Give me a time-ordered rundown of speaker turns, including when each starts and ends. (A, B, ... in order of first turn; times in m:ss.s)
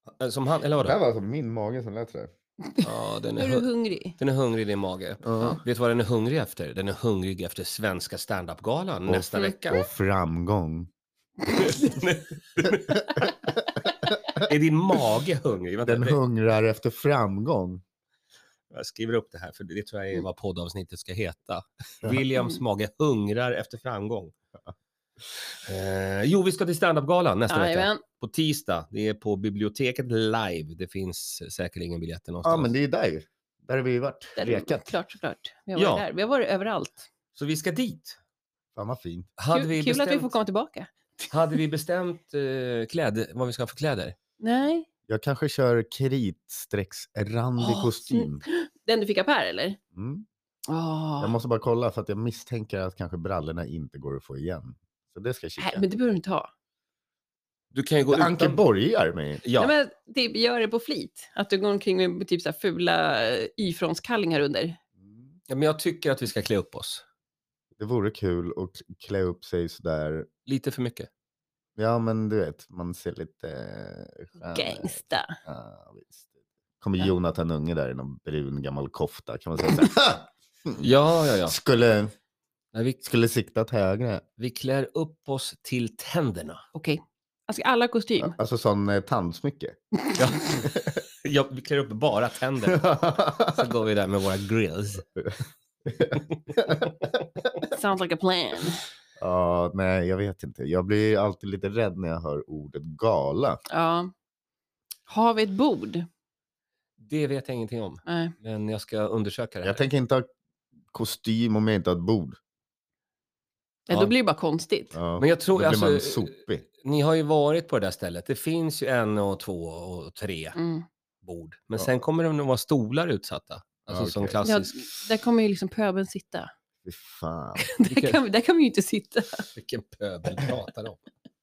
0:00.2-0:01.0 A
0:00.8-0:02.3 B
0:02.7-0:04.2 C
0:02.8-0:09.8 A
0:05.2-0:05.6 B
0:09.1-0:10.9 B
0:11.5-0:13.3 A
0:13.0-0:13.2 B
0:13.9-0:14.5 B
0:14.3-0:16.2 A
0:15.8-0:17.8 B
0:18.7-0:24.3 A
0:25.6-0:32.7 A
0:27.5-0:28.0 C
0:32.4-0:34.9 B
0:34.4-0:37.1 C
0:35.8-0:36.0 A
0:37.4-0:38.2 A
0:38.7-0:39.3 B
0:39.4-0:40.3 A
0:39.5-0:40.9 C
0:41.3-0:44.2 A
0:44.4-0:44.9 C
0:45.1-0:48.4 B
0:47.6-0:49.8 C
0:49.9-0:50.2 B
0:50.7-0:51.4 C
0:51.2-0:55.9 B
0:55.6-0:56.5 C
0:57.7-0:58.6 A
0:58.1-0:59.4 B
0:59.4-0:59.7 A
0:59.6-1:04.8 C
1:05.5-1:07.0 A
1:07.8-1:10.3 B
1:10.4-1:11.1 A
1:11.8-1:20.9 B
1:14.4-1:15.4 C
1:20.8-1:21.6 A
1:21.4-1:22.1 B
1:22.7-1:23.0 A
1:23.0-1:24.2 B
1:24.4-1:26.6 A
1:26.7-1:28.4 C
1:28.2-1:29.8 B
1:30.2-1:30.6 A
1:30.6-1:31.0 B
1:31.2-1:35.0 A
1:32.7-1:33.6 B
1:35.9-1:37.1 B
1:37.7-1:38.8 C
1:39.2-1:43.6 B
1:43.7-1:44.1 C
1:45.1-1:46.1 C
1:47.0-1:49.8 A
1:48.1-1:48.3 C
1:49.6-1:50.3 B
1:50.9-1:52.4 B
1:53.9-1:55.0 C
1:54.9-1:56.6 B
1:55.2-2:00.6 A
2:00.6-2:00.9 C
2:01.2-2:04.8 A
2:03.9-2:04.4 B
2:04.4-2:06.5 C
2:06.8-2:07.7 B
2:07.6-2:09.5 C
2:07.8-2:08.2 A
2:09.6-2:11.0 A